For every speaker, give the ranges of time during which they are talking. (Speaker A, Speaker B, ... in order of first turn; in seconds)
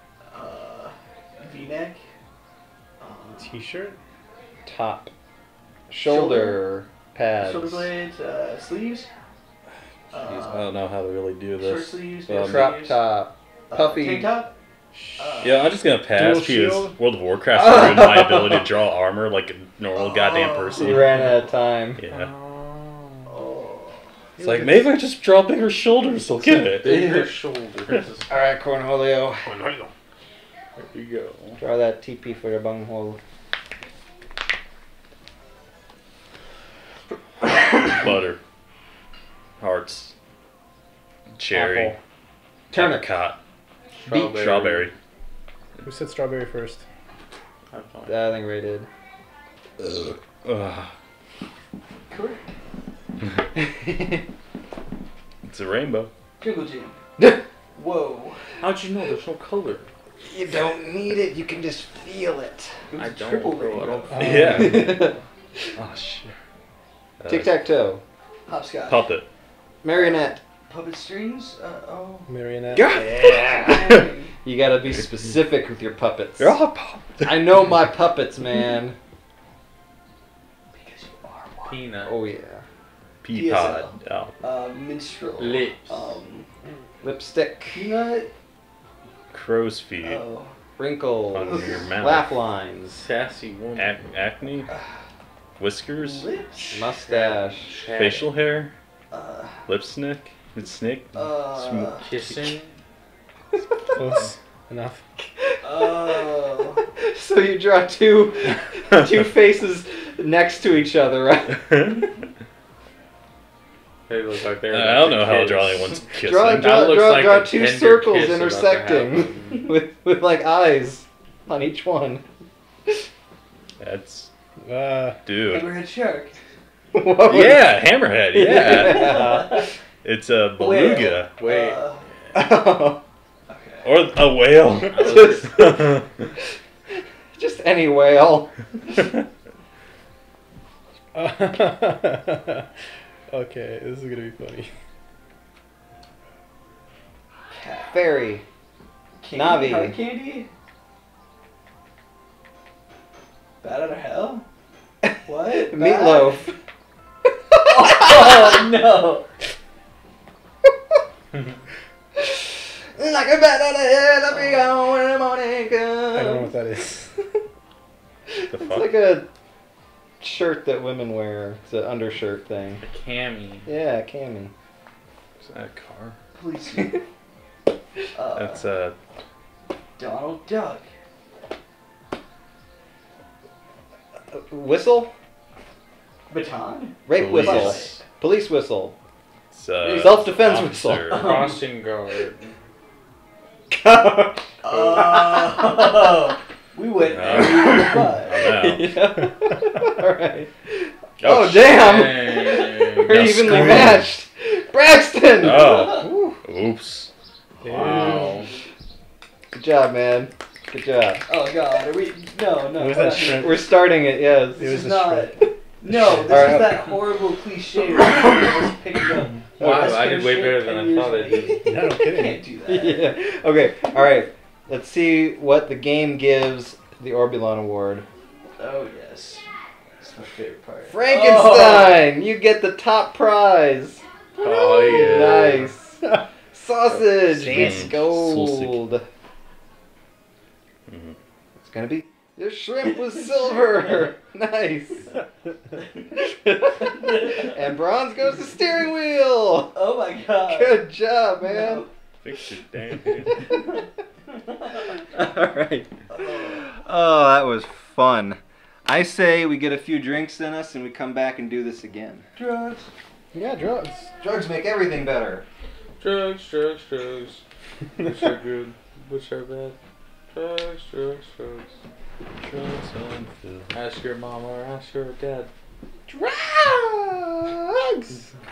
Speaker A: 0.3-2.0, 3.0-3.5, 6.0-6.6, 7.4-9.1, 10.1-10.7, 11.6-13.0, 13.7-14.5, 15.2-15.8, 17.6-18.5, 19.9-20.9, 23.3-24.1, 52.1-52.4, 56.4-57.0, 57.7-58.4, 62.9-64.3, 68.5-69.1, 69.9-72.3, 72.8-74.3, 80.7-81.8, 83.3-86.5, 87.7-88.3, 90.0-90.5, 91.4-91.8, 95.9-97.4, 99.1-99.7, 101.1-102.1, 105.6-106.8, 125.4-126.3, 128.5-129.7, 130.6-132.0, 133.5-134.0, 147.5-148.1, 149.2-150.5, 153.6-154.4, 155.2-156.5, 157.7-159.2, 164.3-164.7, 176.3-177.0, 178.1-178.7, 180.0-180.9, 186.3-188.0, 189.8-190.2, 191.0-191.6, 194.6-198.5, 205.4-206.1, 211.3-213.7, 214.6-223.2, 228.6-229.4, 230.0-232.0, 242.9-244.1, 245.8-246.0, 246.8-247.5, 249.7-251.9, 253.4-253.8, 254.3-255.0, 256.1-256.6, 262.4-262.9
Speaker B: 3.4-4.0, 14.9-15.6, 16.1-17.0, 24.4-24.9, 29.4-29.9, 45.8-46.8, 64.1-64.7, 72.3-72.8, 103.9-105.0, 124.6-125.2, 141.1-142.7, 143.3-144.7, 166.1-167.1, 207.6-208.4, 212.7-213.8, 214.6-215.3, 215.9-216.4, 221.6-222.4, 263.3-264.1
Speaker C: 4.7-5.1, 5.9-7.9, 12.4-14.4, 20.7-22.0, 28.3-29.5, 31.6-33.2, 41.5-42.0, 42.7-43.0, 48.0-48.9, 53.6-54.2, 60.2-62.7, 64.4-65.2, 67.3-68.0, 69.8-70.4, 72.7-73.9, 74.4-76.6, 77.2-79.0, 82.0-82.6, 87.0-87.9, 90.8-93.0, 96.7-97.7, 105.3-112.1, 116.2-122.2, 126.9-127.8, 128.3-129.7, 132.3-133.0, 135.0-135.6, 137.3-139.0, 147.9-148.4, 149.3-150.0, 155.6-156.6, 157.5-158.6, 162.2-166.5, 168.3-169.3, 170.2-172.8, 173.6-174.5, 184.3-185.1, 187.1-188.9, 189.8-191.1, 193.7-196.0, 197.4-206.4, 209.5-211.2, 213.1-214.7, 216.2-216.9, 219.6-220.0, 222.7-228.1, 230.9-239.0, 241.6-245.1, 246.1-249.8, 250.4-251.8, 255.0-262.3, 264.2-265.4, 276.1-278.1
Speaker D: 10.1-12.8, 15.4-21.4, 21.9-22.3, 24.4-27.2, 37.8-38.4, 39.6-40.1, 41.4-41.9, 42.7-43.4, 44.1-44.9, 49.8-50.9, 55.4-56.1, 64.2-65.1, 65.8-66.3, 67.2-67.6, 68.8-69.3, 72.9-73.8, 76.4-77.3, 83.2-84.3, 89.3-90.2, 91.3-92.4, 93.8-94.7, 95.6-96.3, 97.9-98.7, 99.7-102.6, 114.7-116.8, 123.8-124.3, 125.2-125.8, 127.3-129.3, 130.0-131.4, 133.8-136.3, 168.5-168.9, 175.4-176.2, 178.3-178.9, 187.1-188.0, 189.5-191.5, 197.0-199.0, 201.2-202.1, 203.0-204.1, 205.4-207.1, 207.7-208.2, 234.9-235.7, 237.2-238.8, 240.9-241.1, 252.2-253.7, 272.4-273.8
Speaker E: 21.1-21.4, 22.1-23.3, 26.4-28.4, 30.8-31.6, 44.0-44.9, 47.7-48.4, 58.6-59.9, 62.9-65.2, 81.6-82.2, 85.4-86.2, 92.9-94.0, 97.1-98.4, 102.0-102.7, 114.1-116.0, 116.5-119.6, 131.3-132.0, 134.9-135.6, 172.8-173.7, 191.2-192.5, 201.7-203.3, 207.7-208.5, 219.3-221.6, 234.4-235.6, 266.0-267.4, 268.0-269.8, 270.3-271.7, 273.7-275.5